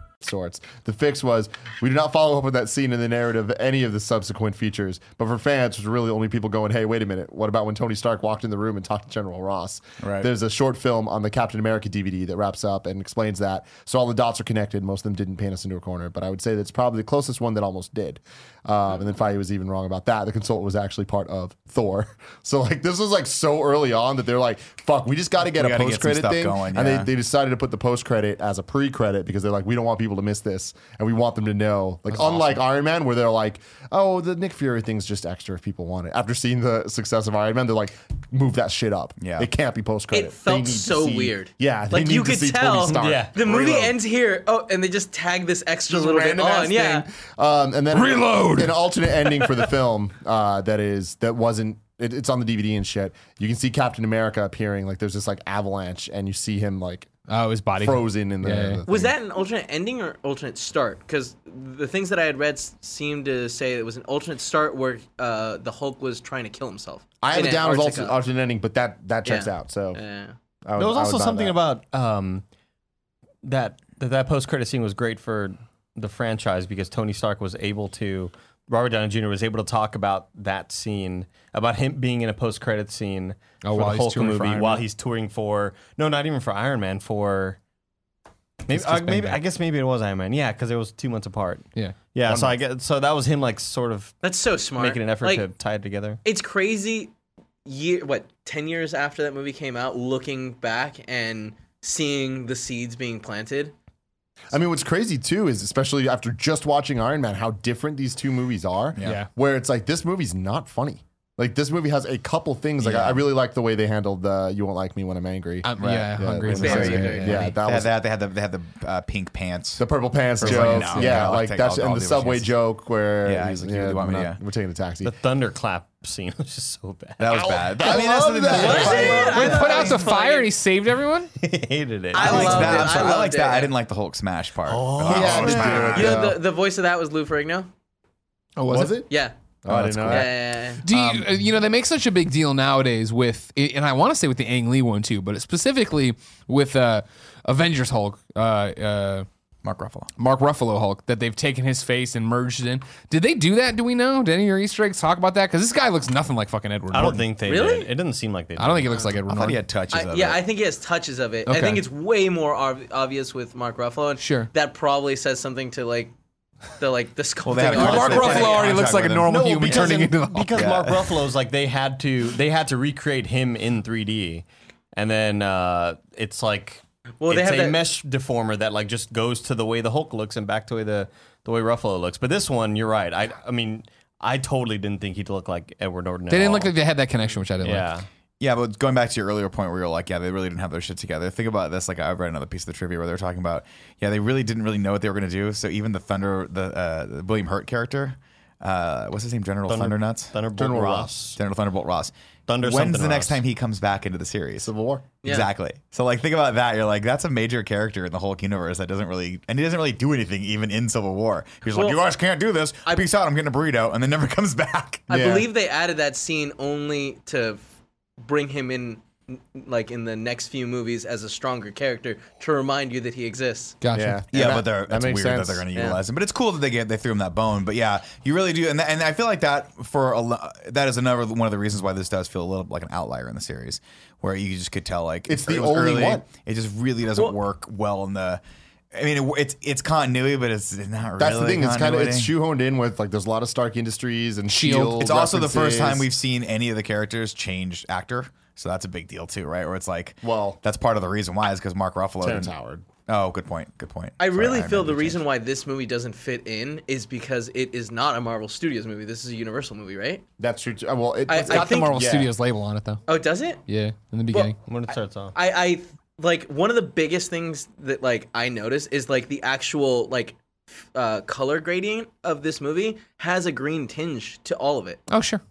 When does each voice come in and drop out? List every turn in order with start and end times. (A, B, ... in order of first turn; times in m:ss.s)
0:00.2-0:43.9 A
0:10.0-0:10.3 B
0:25.5-0:27.1 B
0:39.2-0:39.5 B
0:40.1-0:47.1 C
0:42.9-0:43.3 D
0:45.9-0:57.1 A
0:47.9-0:48.7 E
0:57.3-0:58.8 E
0:57.8-0:59.1 A
0:58.8-1:08.2 C
1:07.2-1:10.0 A
1:09.2-1:10.4 C
1:10.6-1:11.6 A
1:10.8-1:12.4 D
1:13.4-1:27.6 D
1:23.6-1:24.8 E
1:28.6-1:34.2 D
1:28.7-1:29.4 E
1:31.8-1:32.5 E
1:34.2-1:35.4 C
1:34.7-1:36.2 D
1:36.2-1:37.1 C
1:37.6-1:43.7 C
1:44.5-1:57.9 A
1:48.9-1:49.2 B
1:49.0-1:49.3 E
1:52.8-1:53.2 B
1:55.6-1:57.5 E
1:55.8-1:59.8 B
1:56.5-1:57.5 C
1:59.8-2:05.1 A
2:00.4-2:02.5 B
2:00.5-2:01.0 D
2:03.2-2:04.4 B
2:05.0-2:09.4 D
2:07.2-2:10.0 B
2:07.3-2:09.6 A
2:08.5-2:10.5 C
2:09.2-2:11.3 E
2:11.4-2:13.2 D
2:12.1-2:13.7 C
2:12.1-2:16.2 B
2:14.6-2:16.0 D
2:15.0-2:16.4 A
2:15.9-2:17.7 C
2:18.6-2:19.0 E
2:18.7-2:19.1 A
2:19.1-2:19.3 C
2:19.6-2:20.3 A
2:19.7-2:20.2 B
2:19.7-2:20.2 E
2:20.1-2:20.8 C
2:20.8-2:29.3 E
2:20.9-2:21.2 B
2:29.6-2:30.1 B
2:30.2-2:37.2 E
2:36.9-2:39.0 D
2:37.4-2:37.9 C
2:38.6-2:39.6 E
2:39.3-2:40.4 B
2:39.9-2:46.1 C
2:41.4-2:41.8 E
2:44.2-2:44.5 E
2:46.8-2:48.7 C
2:47.4-2:50.0 B
2:47.6-2:50.6 E
2:47.6-2:48.4 D
2:49.3-3:06.7 D
2:50.5-2:51.0 B
2:57.2-2:57.8 C
3:06.3-3:07.9 E
3:07.6-3:08.0 D
3:08.4-3:20.4 B
3:19.7-3:21.4 D
3:20.6-3:21.1 A
3:21.4-3:24.7 B
3:22.5-3:23.4 D
3:24.6-3:25.0 A
3:25.2-3:25.5 C
3:25.2-3:35.1 B
3:31.7-3:32.0 C
3:35.1-3:37.6 C
3:35.1-3:35.5 A
3:38.2-3:43.8 C
3:43.8-3:44.2 E
3:43.9-3:45.7 A
3:44.3-3:58.4 B
3:45.7-3:46.0 C
3:55.3-3:56.2 A
3:58.9-4:02.3 B
4:01.2-4:06.1 A
4:04.5-4:05.0 E
4:05.0-4:12.5 B
4:10.2-4:10.6 A
4:12.2-4:12.9 A
4:13.0-4:15.2 B
4:14.2-4:20.2 C
4:20.4-4:22.3 A
4:21.3-4:22.0 C
4:21.4-4:23.0 E
4:23.1-4:23.6 C
4:23.7-4:24.6 E
4:24.3-4:35.0 C
4:24.6-4:25.3 D
4:35.1-4:35.4 E